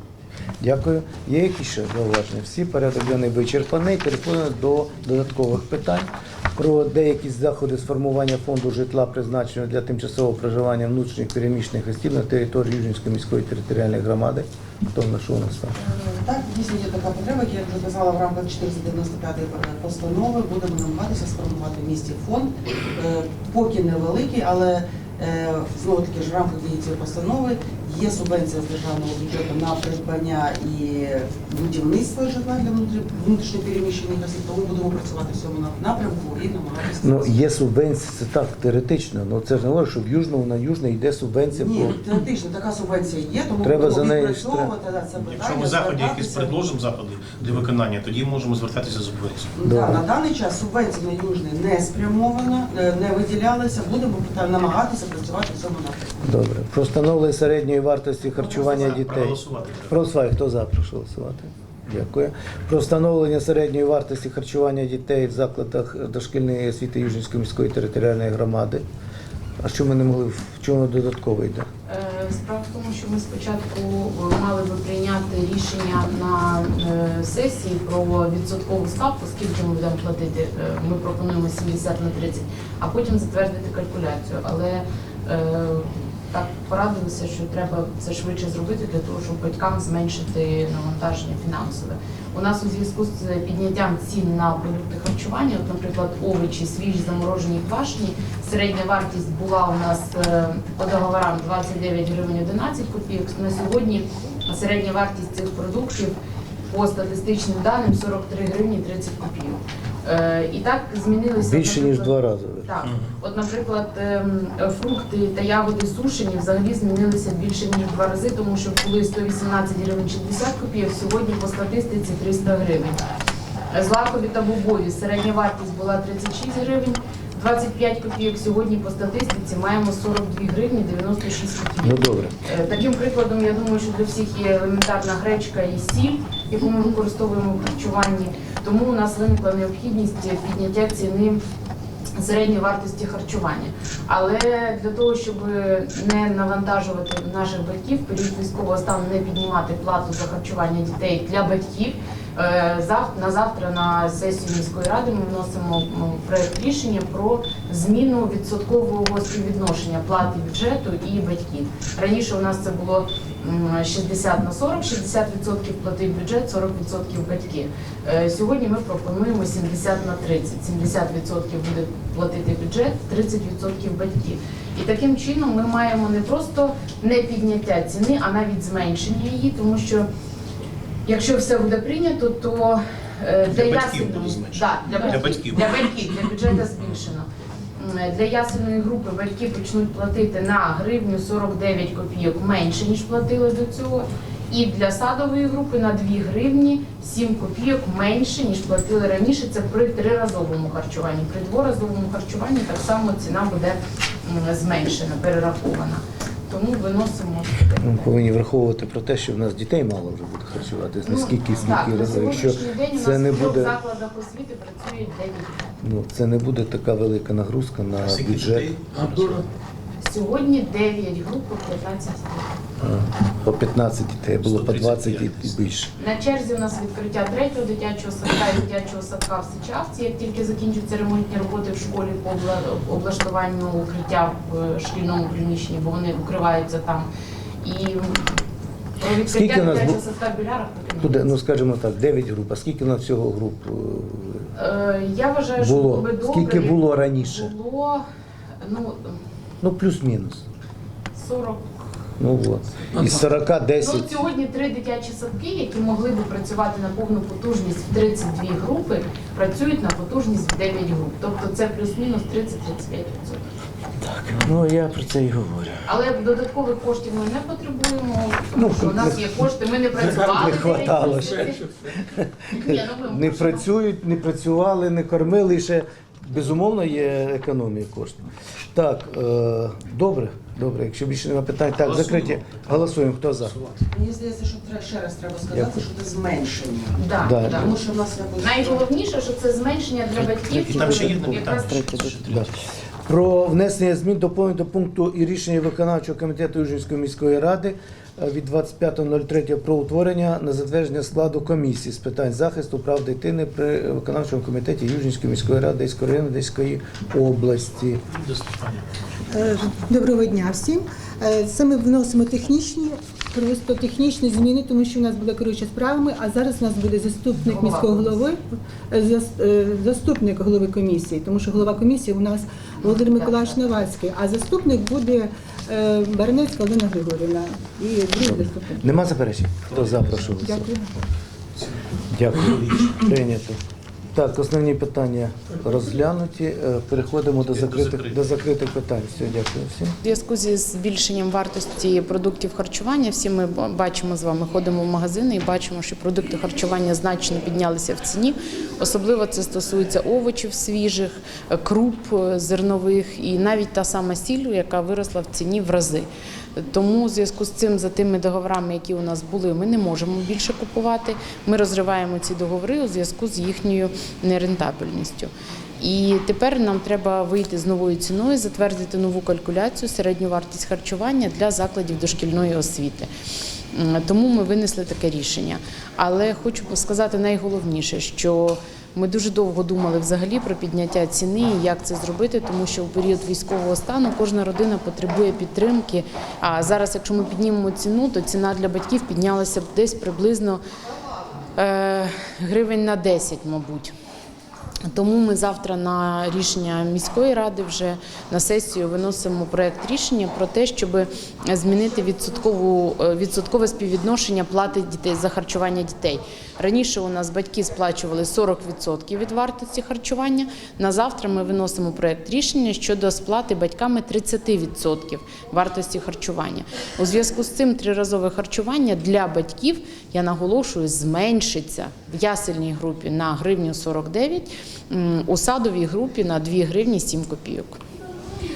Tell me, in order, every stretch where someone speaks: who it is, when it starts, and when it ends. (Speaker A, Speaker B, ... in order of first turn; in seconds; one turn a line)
Speaker A: 0.6-15.8
Speaker B: 15.9-37.4
Speaker A: 37.0-42.0
Speaker B: 41.5-46.6
Speaker A: 43.6-44.7
Speaker C: 45.2-49.5
Speaker B: 49.6-56.2
Speaker A: 49.6-50.0
Speaker A: 56.2-68.8
Speaker B: 58.4-59.0
Speaker C: 58.4-59.9
Speaker A: 69.6-71.7
Speaker D: 71.9-106.1
Speaker D: 106.7-123.0
Speaker A: 111.4-112.7
Speaker D: 123.7-141.4
Speaker A: 131.8-132.3
Speaker D: 142.2-180.1
Speaker D: 181.1-208.1
Speaker C: 183.5-186.1
Speaker A: 207.8-213.8
Speaker D: 211.0-215.5
Speaker A: 215.8-218.8
Speaker C: 218.0-219.4
Speaker D: 220.0-222.5
Speaker A: 222.8-225.9
Speaker C: 224.4-225.7
Speaker D: 226.0-237.1
Speaker D: 237.6-238.4
Speaker D: 239.0-241.3
Speaker A: 239.2-240.0
Speaker A: 241.0-244.5
Speaker D: 244.5-248.0
Speaker A: 245.6-247.5
Speaker D: 248.6-249.2
Speaker A: 249.6-250.4
Speaker D: 251.2-251.7
Speaker A: 252.2-254.2
Speaker D: 253.8-263.4
Speaker A: 264.0-265.8
Speaker D: 265.9-271.6
Speaker A: 268.5-283.6
Speaker D: 272.5-273.6
Speaker C: 281.8-282.9
Speaker C: 283.4-283.8
Speaker B: 283.9-288.9
Speaker A: 285.5-285.8
Speaker D: 286.9-287.8
Speaker A: 287.2-287.7
Speaker D: 288.4-292.0
Speaker C: 290.2-292.5
Speaker A: 292.2-292.5
Speaker A: 293.1-308.0
Speaker C: 308.1-309.5
Speaker E: 309.3-329.0
Speaker D: 317.5-318.3
Speaker D: 322.8-323.6
Speaker A: 328.2-330.7
Speaker C: 329.7-330.5
Speaker E: 330.4-330.9
Speaker C: 331.6-333.1
Speaker A: 332.1-333.6
Speaker A: 334.1-339.9
Speaker C: 337.4-338.2
Speaker D: 340.0-373.1
Speaker D: 373.7-390.6
Speaker D: 391.6-393.9
Speaker D: 394.9-427.8